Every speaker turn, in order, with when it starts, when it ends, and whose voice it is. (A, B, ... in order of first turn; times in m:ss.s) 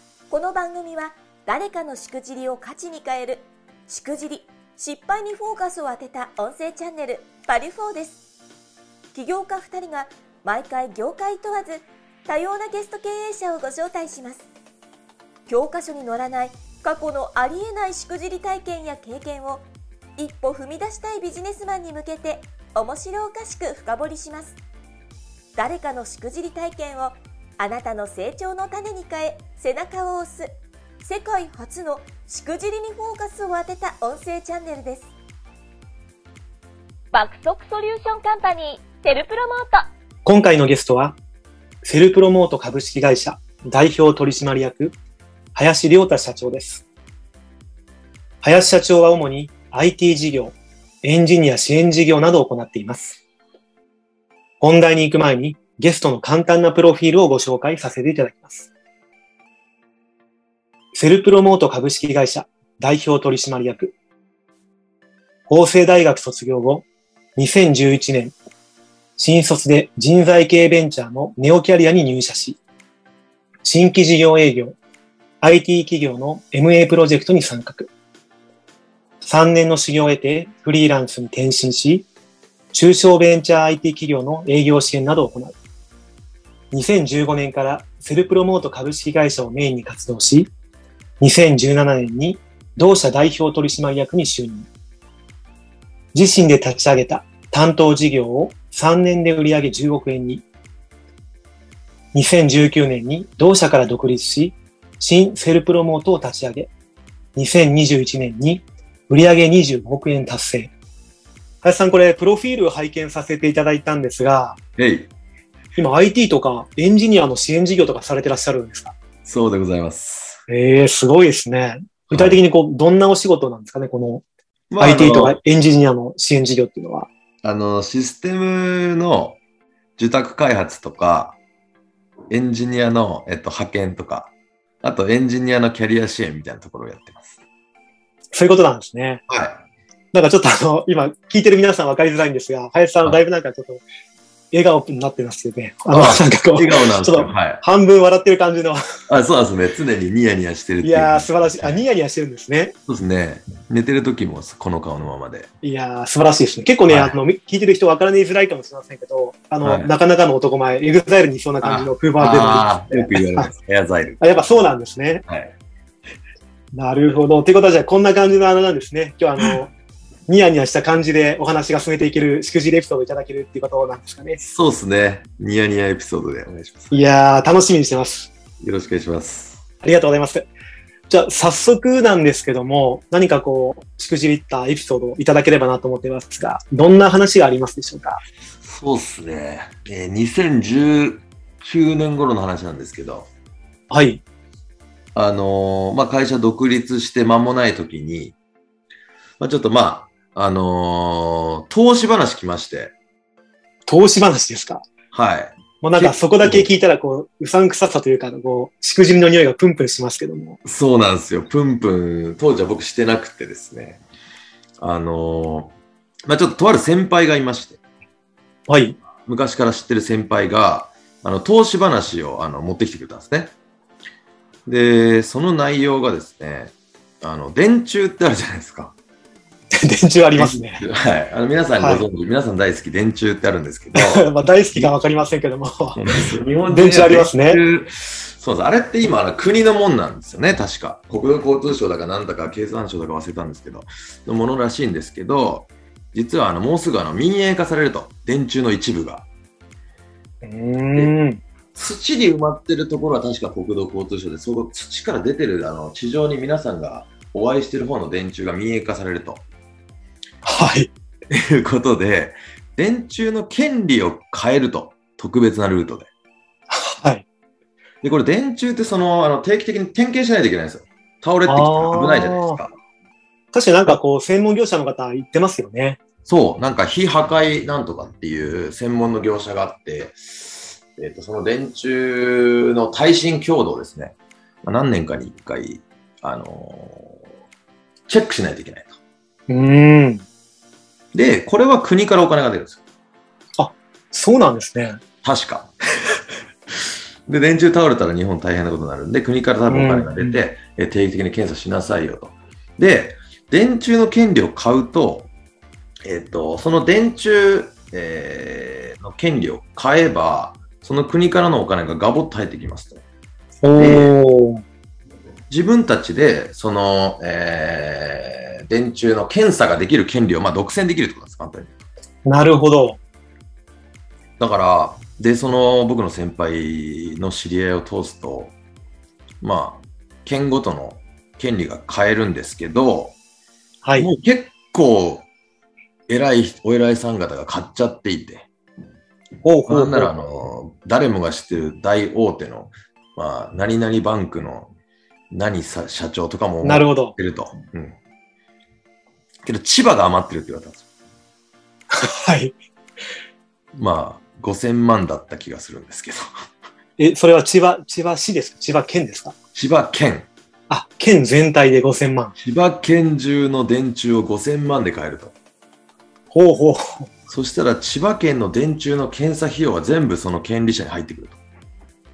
0:00.3-0:08.2 A
0:09.1-0:14.4 A
0:15.5-0:24.6 A
0:25.6-0:30.5 A
0:31.0-0:35.1 A
0:37.1-0:39.9 A
0:40.2-0:41.2 B
0:41.8-0:45.0 B
0:45.5-0:46.8 B
0:48.4-0:53.2 B
0:54.6-0:58.7 B
1:00.9-1:03.9 B
1:05.5-1:08.4 B
1:09.2-1:12.6 B
1:13.6-1:14.8 B
1:15.4-1:17.9 B
1:19.2-1:22.1 B
1:22.7-1:25.6 B
1:26.7-1:30.5 B
1:31.2-1:34.7 B
1:36.1-1:40.4 B
1:42.1-1:46.7 B
1:47.4-1:50.7 B
1:51.6-1:54.6 B
1:54.8-1:55.1 C
1:55.7-1:59.0 B
1:59.2-2:00.4 C
2:00.5-2:04.2 B
2:02.1-2:02.4 C
2:04.7-2:05.4 C
2:04.8-2:07.1 B
2:07.4-2:09.4 C
2:10.0-2:11.4 C
2:12.3-2:17.4 C
2:18.3-2:19.2 B
2:19.3-2:19.6 C
2:20.1-2:23.8 B
2:24.5-2:28.8 B
2:25.9-2:27.6 C
2:29.1-2:31.8 C
2:30.8-2:32.7 B
2:32.9-2:35.5 C
2:35.6-2:43.5 B
2:36.9-2:37.2 C
2:39.6-2:39.9 C
2:41.6-2:44.2 C
2:44.2-2:45.2 B
2:45.2-2:45.5 C
2:46.7-2:49.7 B
2:50.3-2:54.4 B
2:54.4-2:57.0 C
2:56.9-2:58.3 B
2:58.6-2:59.6 C
2:59.8-3:00.5 B
3:01.1-3:08.2 B
3:08.6-3:13.3 C
3:13.9-3:14.2 B
3:15.1-3:18.4 C
3:19.4-3:22.9 C
3:23.9-3:24.8 B
3:25.1-3:26.7 C
3:25.8-3:30.6 B
3:30.6-3:34.0 C
3:34.8-3:35.7 C
3:36.3-3:37.8 C
3:38.7-3:39.0 B
3:39.2-3:43.5 C
3:44.7-3:48.9 C
3:49.7-3:50.8 B
3:50.4-3:54.9 C
3:51.8-3:52.0 B
3:53.9-3:56.0 B
3:56.0-4:09.2 C
3:56.6-3:57.6 B
4:10.4-4:11.4 B
4:11.7-4:19.4 C
4:20.4-4:20.9 B
4:21.3-4:26.1 C
4:26.7-4:27.2 B
4:28.0-4:32.7 C
4:31.4-4:32.6 B
4:33.5-4:36.0 B
4:36.2-4:47.2 C
4:48.1-4:48.9 C
4:49.5-4:50.2 B
4:51.1-4:52.8 C
4:53.6-4:55.0 B
4:55.2-4:56.2 C
4:57.3-5:05.3 C
4:59.7-5:00.4 B
5:06.0-5:13.0 C
5:13.6-5:14.6 B
5:13.8-5:14.1 C
5:15.5-5:21.8 C
5:22.2-5:23.0 B
5:24.4-5:28.5 C
5:29.4-5:33.2 C
5:33.8-5:34.1 B
5:34.0-5:35.3 C
5:36.1-5:38.5 C
5:39.4-5:40.1 B
5:39.7-5:44.7 C
5:45.3-5:48.0 C
5:46.6-5:47.2 B
5:49.4-5:50.8 C
5:51.9-5:52.6 B
5:53.8-5:56.3 C
5:57.0-5:59.3 B
5:59.5-6:00.3 C
6:00.7-6:02.4 B
6:02.4-6:05.3 C
6:06.3-6:07.1 B
6:07.3-6:11.4 C